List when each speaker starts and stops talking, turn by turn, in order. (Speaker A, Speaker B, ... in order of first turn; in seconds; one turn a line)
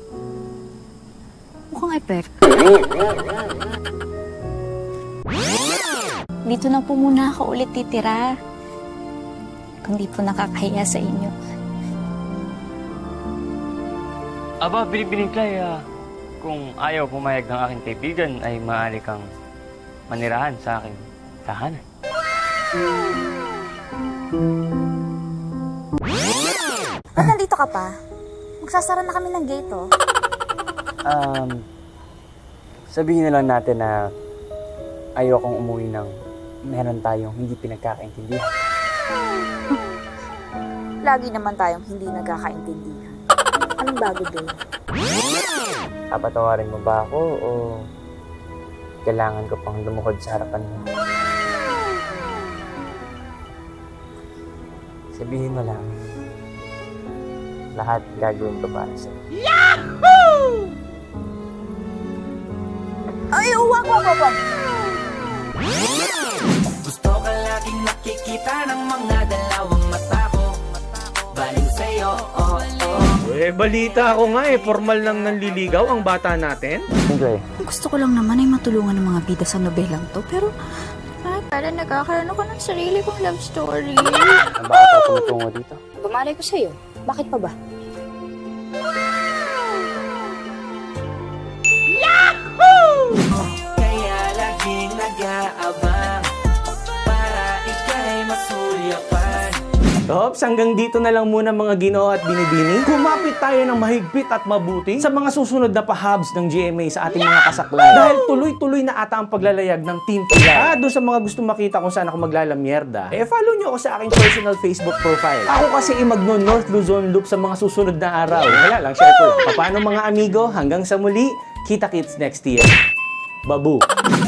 Speaker A: 1.7-2.3
Speaker A: 6.5-8.3
Speaker A: 9.8-11.3
Speaker B: 14.6-15.8
Speaker B: 16.4-19.3
Speaker B: 20.1-21.8
Speaker A: 27.2-27.9
Speaker A: 28.6-29.9
Speaker B: 31.1-31.6
Speaker B: 32.9-34.0
Speaker B: 35.2-36.1
Speaker B: 36.7-38.5
Speaker A: 41.0-43.2
Speaker A: 43.8-44.5
Speaker B: 46.1-47.8
Speaker B: 49.0-50.9
Speaker B: 55.1-55.9
Speaker B: 57.8-59.2
Speaker A: 63.3-64.4
Speaker C: 66.8-73.1
Speaker D: 73.2-76.9
Speaker B: 77.0-77.5
Speaker A: 77.6-80.5
Speaker A: 81.2-84.4
Speaker B: 84.6-85.8
Speaker A: 86.0-87.5
Speaker C: 93.6-96.3
Speaker C: 97.0-99.6
Speaker D: 100.1-122.8
Speaker D: 123.5-123.8